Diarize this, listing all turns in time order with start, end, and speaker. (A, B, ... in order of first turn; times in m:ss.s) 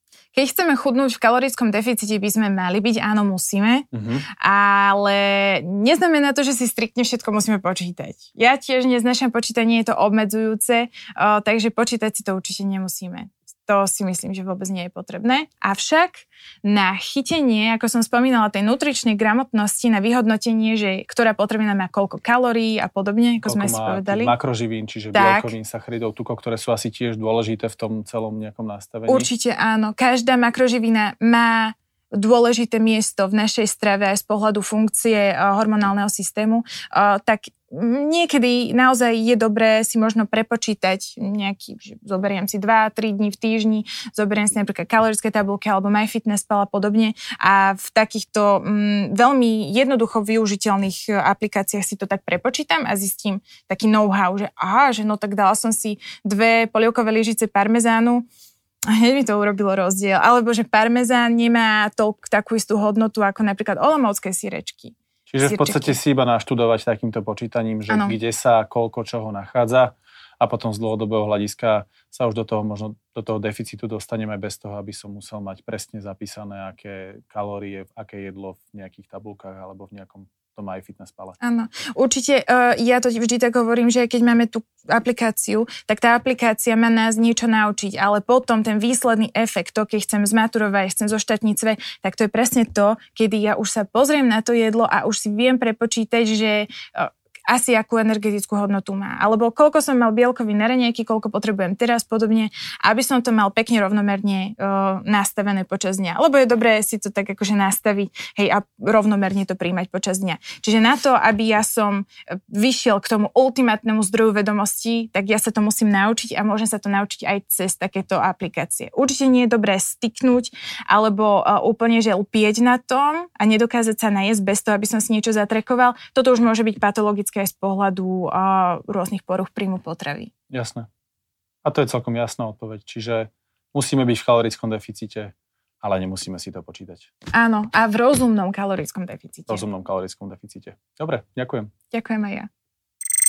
0:00.3-0:03.8 A
0:03.9-0:04.2 B
0:04.4-0:24.3 A
0:23.4-0:29.3 B
0:25.1-0:25.5 A
0:29.1-0:58.2 A
0:58.9-1:06.0 A
1:05.3-1:21.3 B
1:07.9-1:08.1 A
1:21.4-2:10.3 A
2:10.5-2:10.9 B
2:11.6-2:17.1 B
2:17.3-2:19.6 A
2:19.5-2:21.7 B
2:21.9-2:22.5 A